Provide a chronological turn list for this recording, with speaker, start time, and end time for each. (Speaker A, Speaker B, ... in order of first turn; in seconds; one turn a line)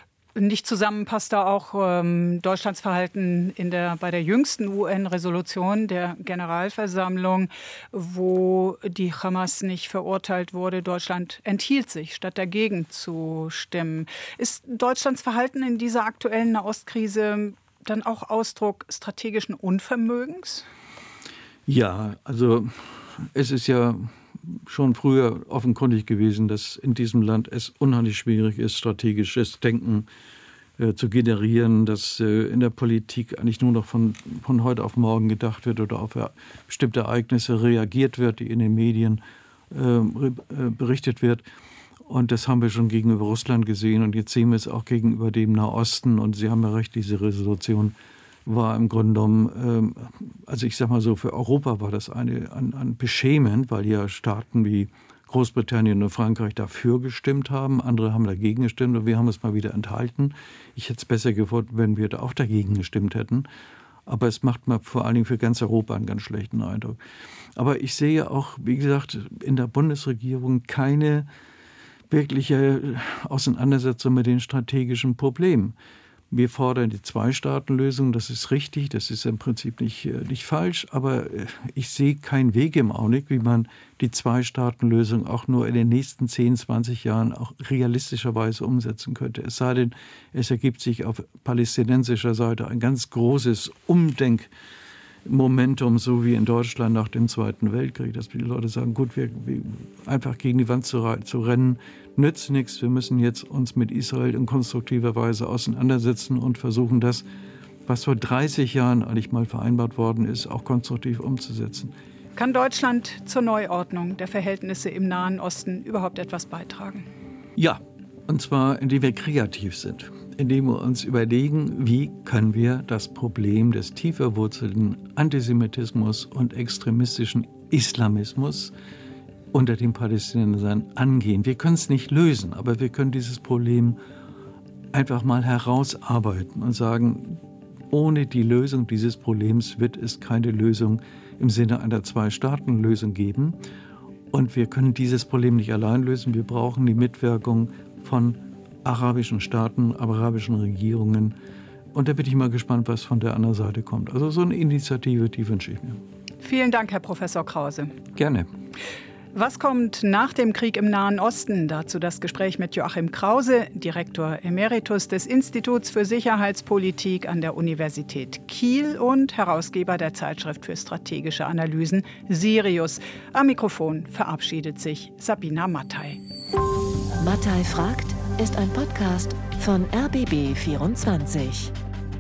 Speaker A: 0.3-20.7
Speaker B: 21.7-30.1
Speaker B: 30.8-41.4
Speaker B: 42.0-47.9
Speaker B: 48.5-63.5
Speaker B: 64.0-67.0
Speaker B: 67.5-71.3
Speaker B: 72.1-75.7
Speaker B: 76.3-94.5
Speaker B: 95.2-107.2
Speaker B: 107.9-111.9
Speaker A: 112.3-117.1
Speaker B: 117.5-128.7
Speaker B: 129.5-134.0
Speaker B: 134.9-143.6
Speaker B: 144.3-151.3
Speaker B: 151.9-156.0
Speaker A: 156.4-157.9
Speaker B: 158.1-158.5
Speaker A: 159.3-176.2
Speaker C: 177.2-181.7